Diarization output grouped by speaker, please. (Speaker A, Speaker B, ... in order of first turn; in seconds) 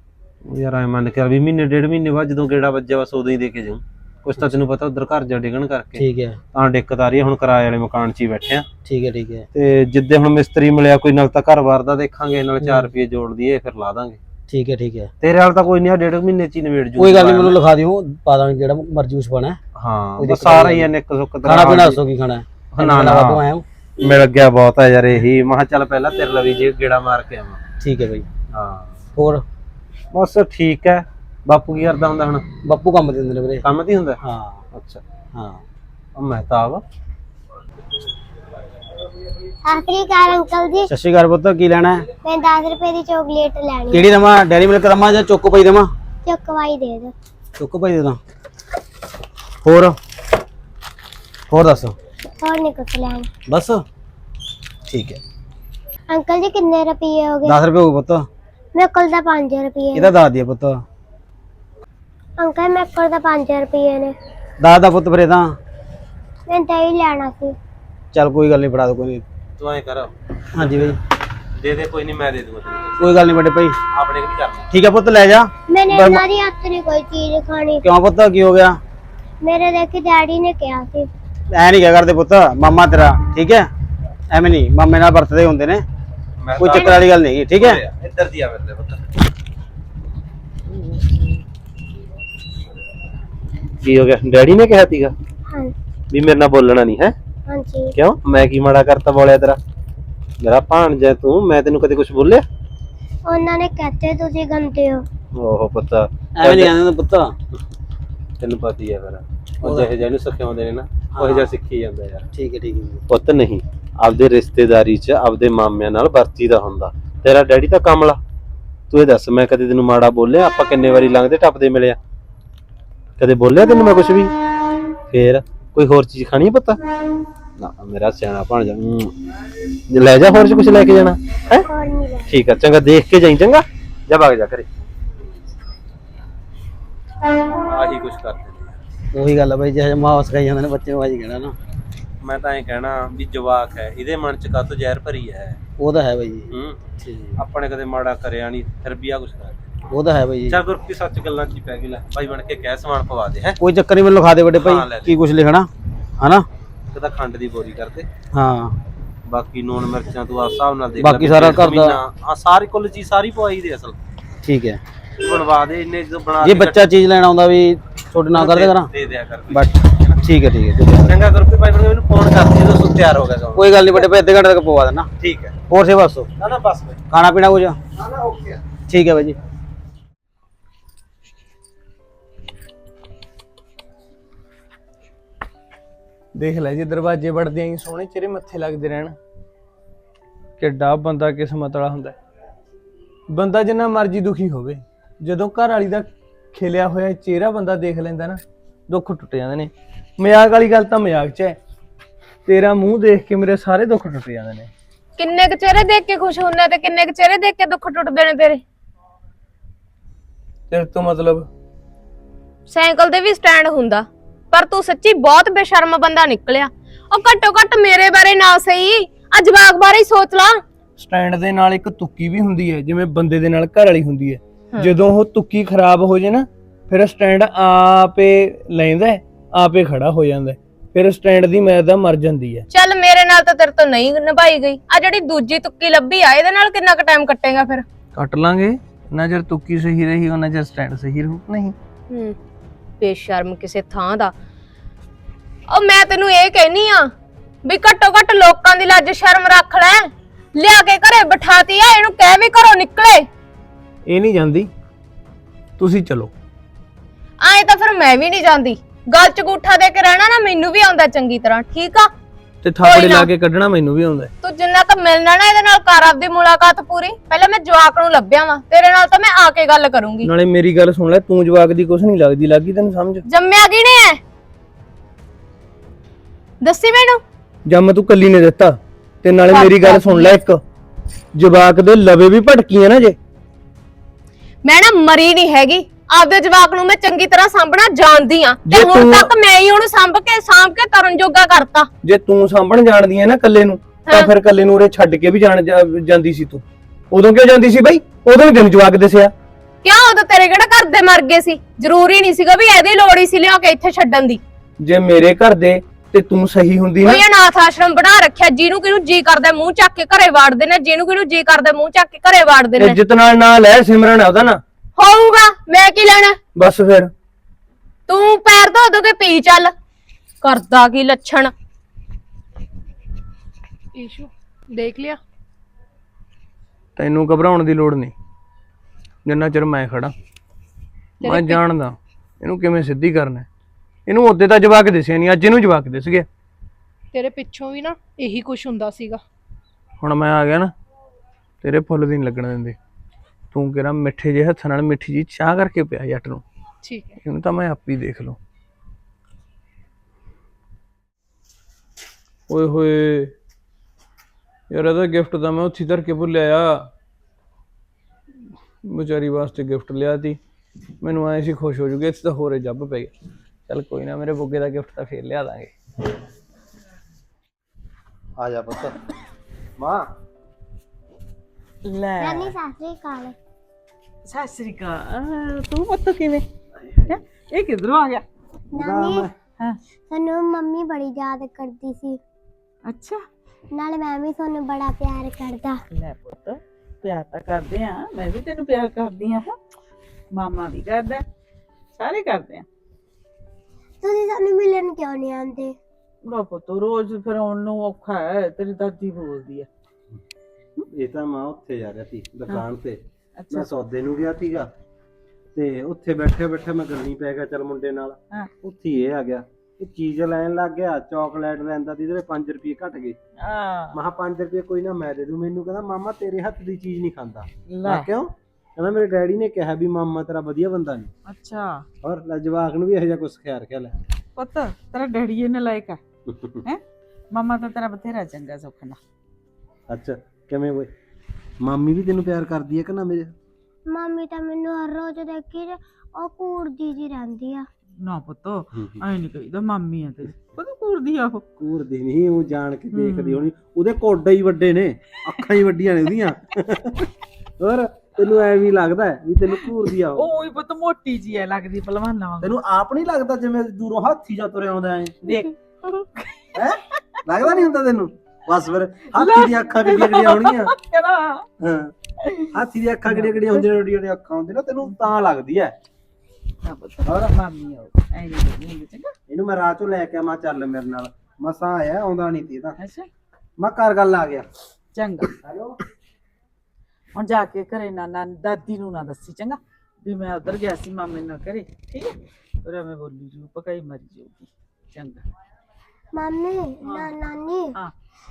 Speaker A: 0.5-8.7, 9.5-14.2, 15.2-17.6, 19.8-22.0, 22.8-23.4, 24.0-27.6, 28.5-29.0, 30.1-32.5, 33.6-34.2, 34.7-35.0, 36.1-36.8, 69.6-71.0, 71.6-73.1, 73.9-74.7, 86.4-89.1, 93.8-95.1, 96.1-97.1, 98.0-99.6, 100.4-102.4, 105.3-106.8, 108.4-112.3, 113.1-118.2, 118.9-122.0, 123.2-124.3, 125.1-126.8, 127.6-129.2, 129.9-131.7, 132.3-134.7, 137.5-138.8, 142.2-145.6, 146.5-146.8, 147.4-149.7, 150.5-153.6, 154.6-155.2, 156.9-158.1, 159.3-164.0, 165.2-166.8, 168.3-170.2, 171.1-174.1, 175.2-175.5, 176.4-177.0, 178.0-178.6, 368.4-369.0, 369.8-370.1, 378.8-379.3, 400.9-403.0, 403.5-404.7, 405.5-413.2, 413.9-421.1, 422.0-423.9, 426.3-426.6, 429.9-430.9, 431.6-433.3, 441.6-446.9, 447.6-450.3, 452.4-455.1, 456.5-460.7, 461.6-461.9, 462.5-465.7, 467.0-467.3, 469.3-472.7, 473.6-474.4, 475.4-475.8
Speaker B: 6.0-6.4, 8.8-9.5, 12.6-12.9, 14.5-15.1, 17.0-19.6, 20.2-20.9, 21.4-23.6, 27.8-28.3, 29.1-29.4, 32.6-33.6, 34.2-34.6, 35.3-35.6, 40.9-42.0, 43.9-45.9, 47.6-48.2, 49.6-50.0, 51.5-51.9, 53.5-53.8, 54.9-55.2, 57.4-58.3, 59.9-60.8, 64.6-65.5, 68.1-69.2, 70.5-71.0, 73.0-73.8, 74.7-76.2, 77.8-78.8, 81.5-83.7, 84.3-85.8, 86.6-87.8, 106.4-107.3, 109.6-110.0, 111.1-111.5, 112.3-113.0, 139.1-141.5, 145.8-147.4, 149.9-150.6, 153.6-156.4, 158.3-158.8, 161.0-162.0, 164.4-164.8, 166.4-168.9, 169.5-171.1, 173.6-175.1, 175.7-176.3, 177.1-177.8, 178.9-179.4
Speaker C: 39.6-40.9, 42.2-44.1, 46.2-47.1, 52.4-53.3, 56.1-57.6, 58.7-60.1, 62.4-64.1, 66.5-67.5, 75.7-77.8, 79.4-81.1, 97.5-97.9, 103.3-105.0, 131.7-132.3, 372.2-373.4, 378.7-379.3, 380.1-382.2, 383.7-385.8, 394.0-395.7, 433.9-437.7, 486.1-487.7
Speaker D: 186.3-189.2, 190.6-192.2, 193.3-201.6, 202.5-204.7, 210.7-211.5, 221.0-232.6, 238.2-241.7, 254.1-254.7, 255.8-256.3, 262.6-264.3, 270.2-273.2, 277.6-280.6, 281.4-283.1, 288.6-289.3, 292.0-299.3, 304.8-307.2, 312.8-314.6, 316.6-317.1, 327.0-328.1, 329.2-330.1, 331.2-333.4, 334.1-336.3, 340.0-340.7, 341.6-342.8, 343.5-346.4, 347.2-348.4, 352.5-353.3, 354.7-356.9, 358.9-360.4, 361.0-363.1, 363.7-365.7
Speaker E: 205.2-208.6, 212.7-220.6, 232.7-237.8, 242.1-242.3, 243.0-244.3, 245.7-247.1, 247.6-253.3, 257.4-262.1, 262.8-263.3, 264.4-270.3, 273.2-274.2, 276.6-277.2, 279.5-280.4, 284.6-291.9, 299.8-304.4, 307.0-313.0, 315.0-316.4, 318.1-319.7, 320.4-321.5
Speaker F: 323.9-325.2, 331.2-331.6, 337.1-339.2, 346.8-347.2
Speaker G: 371.8-372.6, 374.3-376.4, 377.1-378.2, 382.9-383.2, 385.9-389.6, 390.3-391.2, 391.9-392.6, 396.2-399.7, 403.4-403.8, 413.4-414.0, 417.7-418.1, 421.2-421.8, 424.4-426.0, 427.3-429.0, 438.0-441.4, 442.9-443.4, 449.6-452.5, 455.2-456.8, 459.1-461.4, 463.1-463.7, 466.6-469.1, 472.8-473.1, 474.9-475.3, 477.1-485.2, 486.8-487.2